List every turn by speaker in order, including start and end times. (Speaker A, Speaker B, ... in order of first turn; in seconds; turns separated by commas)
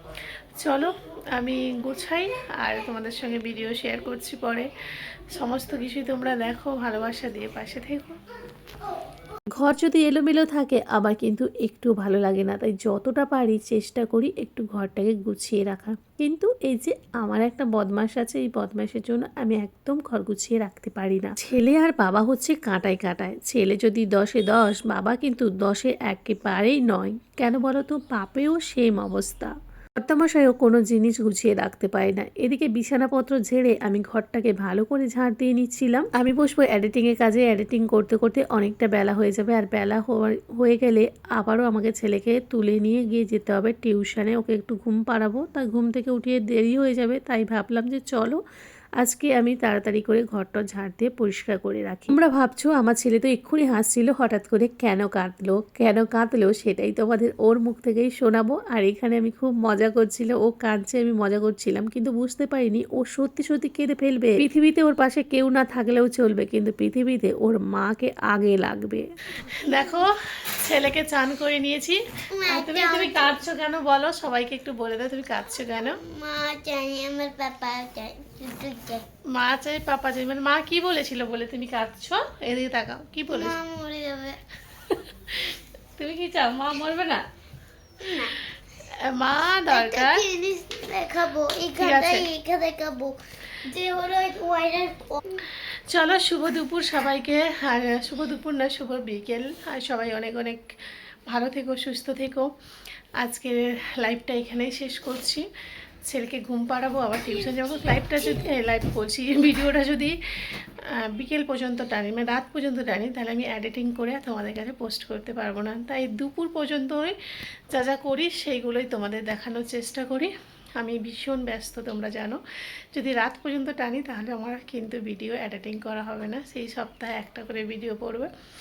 Speaker A: 0.6-4.7, Speaker A: 5.3-8.2, Speaker B: 9.6-48.4, Speaker B: 49.0-69.1, Speaker A: 69.4-76.0, Speaker C: 69.5-70.0, Speaker C: 72.3-73.4, Speaker C: 76.0-79.0, Speaker A: 79.3-83.6, Speaker C: 83.3-84.4, Speaker A: 84.9-87.2, Speaker C: 88.0-88.3, Speaker A: 88.9-90.3, Speaker C: 89.7-95.2, Speaker A: 91.8-92.3, Speaker A: 95.5-100.7, Speaker A: 101.3-102.5, Speaker A: 103.2-105.5, Speaker A: 106.0-117.2, Speaker A: 117.7-122.4, Speaker A: 122.9-128.3